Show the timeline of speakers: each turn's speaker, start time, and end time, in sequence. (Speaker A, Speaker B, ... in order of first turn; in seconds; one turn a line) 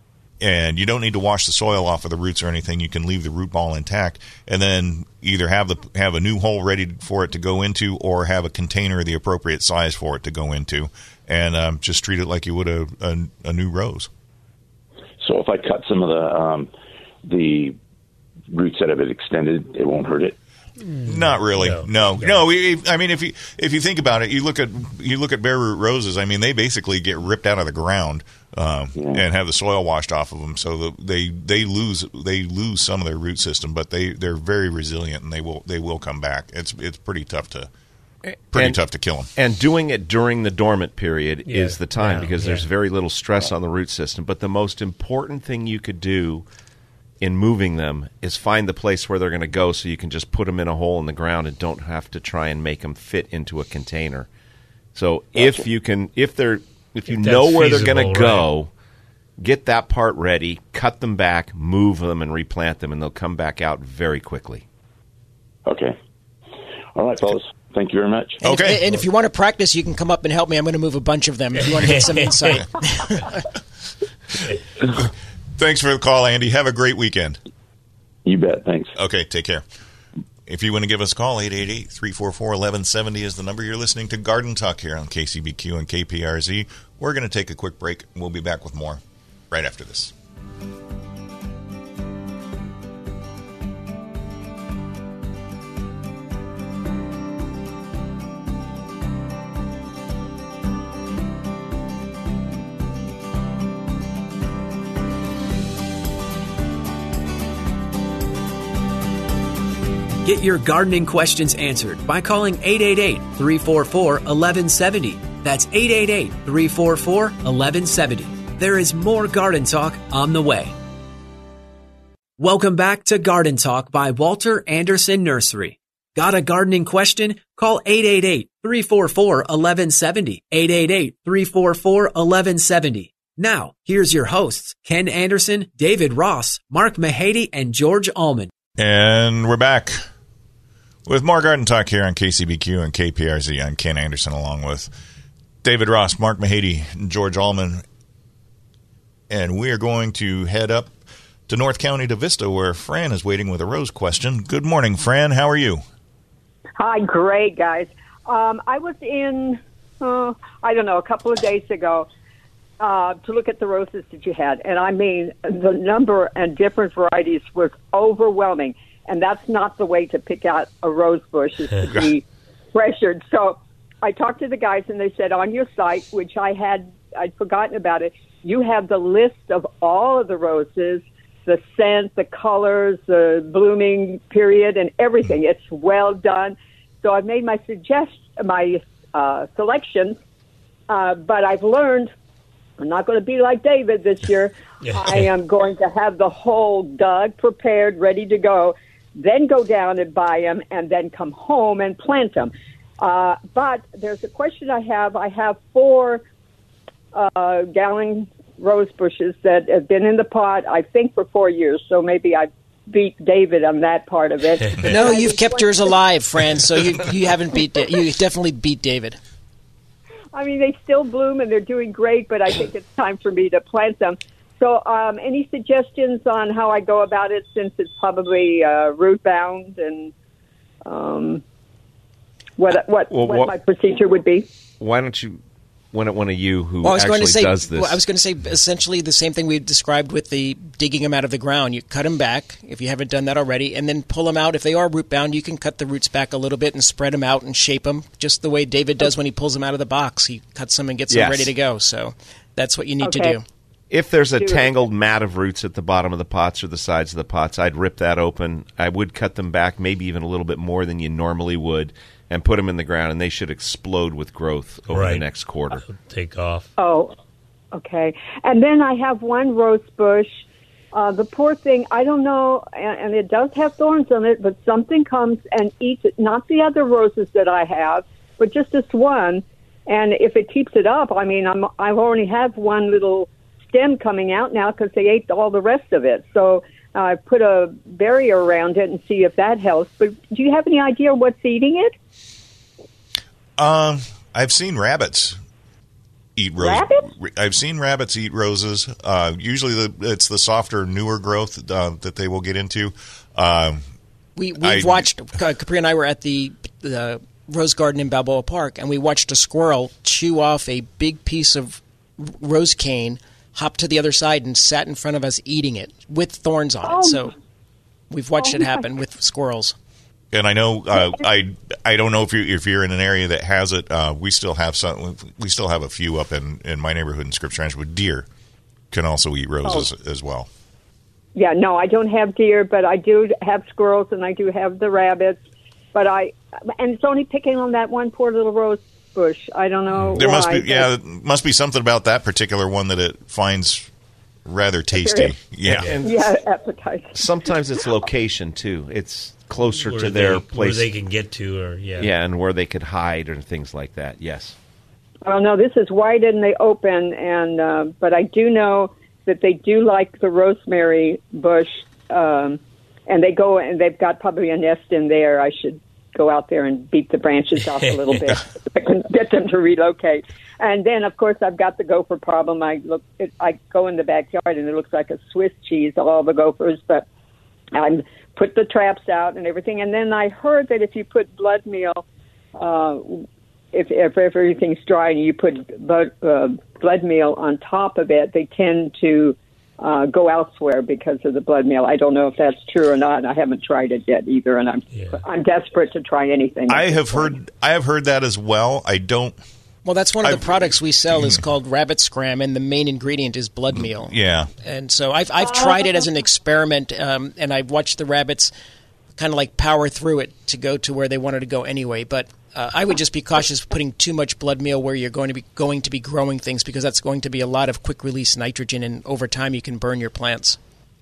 Speaker A: 0.4-14.1
Speaker B: 15.2-16.7
Speaker B: 17.3-17.8
Speaker B: 18.5-20.4
Speaker C: 20.8-22.4
Speaker A: 21.1-37.7
Speaker B: 29.0-29.2
Speaker A: 38.5-39.3
Speaker D: 38.5-38.8
Speaker D: 39.4-46.5
Speaker C: 41.5-42.7
Speaker D: 47.2-54.3
Speaker D: 55.0-58.7
Speaker B: 55.4-55.7
Speaker C: 57.1-58.5
Speaker D: 59.4-64.6
Speaker B: 65.7-66.0
Speaker B: 67.0-68.4
Speaker E: 68.4-73.4
Speaker A: 68.4-68.8
Speaker C: 71.7-72.6
Speaker A: 74.9-77.4
Speaker B: 78.3-78.9
Speaker A: 79.0-79.6
Speaker A: 80.5-90.1
Speaker F: 110.2-120.7
Speaker F: 122.4-138.5
Speaker A: 138.8-140.0
Speaker A: 141.1-144.9
Speaker A: 145.6-147.8
Speaker A: 149.3-150.9
Speaker A: 151.5-155.8
Speaker G: 156.8-162.1
Speaker G: 162.8-190.2
Speaker G: 190.9-192.1
Speaker G: 192.8-206.2
Speaker C: 194.8-195.3
Speaker G: 207.1-216.0
Speaker E: 214.8-219.2
Speaker G: 220.3-230.1
Speaker G: 230.9-231.4
Speaker G: 232.6-234.5
Speaker D: 233.1-233.5
Speaker D: 234.8-235.4
Speaker D: 235.9-238.0
Speaker E: 236.8-253.4
Speaker D: 251.1-251.5
Speaker G: 253.0-253.4
Speaker D: 253.9-265.8
Speaker G: 254.4-254.6
Speaker C: 264.9-265.2
Speaker C: 265.8-266.7
Speaker G: 266.8-267.2
Speaker G: 267.7-270.4
Speaker G: 270.9-291.9
Speaker A: 293.6-295.4
Speaker A: 296.4-303.9
Speaker G: 296.6-297.1
Speaker E: 304.4-317.3
Speaker A: 304.6-305.1
Speaker G: 316.9-317.3
Speaker E: 318.1-319.8
Speaker G: 318.4-318.9
Speaker A: 320.3-328.3
Speaker A: 328.9-330.5
Speaker G: 331.4-335.4
Speaker G: 335.9-340.9
Speaker C: 340.0-340.2
Speaker A: 340.1-343.9
Speaker A: 344.4-345.9
Speaker G: 344.9-345.4
Speaker D: 345.6-346.3
Speaker G: 346.0-347.5
Speaker D: 347.1-350.9
Speaker C: 349.8-352.1
Speaker D: 352.0-354.6
Speaker G: 355.2-377.1
Speaker G: 377.7-382.0
Speaker G: 382.6-397.4
Speaker C: 394.9-395.2
Speaker A: 396.7-399.4
Speaker E: 399.9-408.5
Speaker A: 400.2-401.4
Speaker A: 403.7-404.5
Speaker G: 405.4-406.1
Speaker E: 409.2-420.6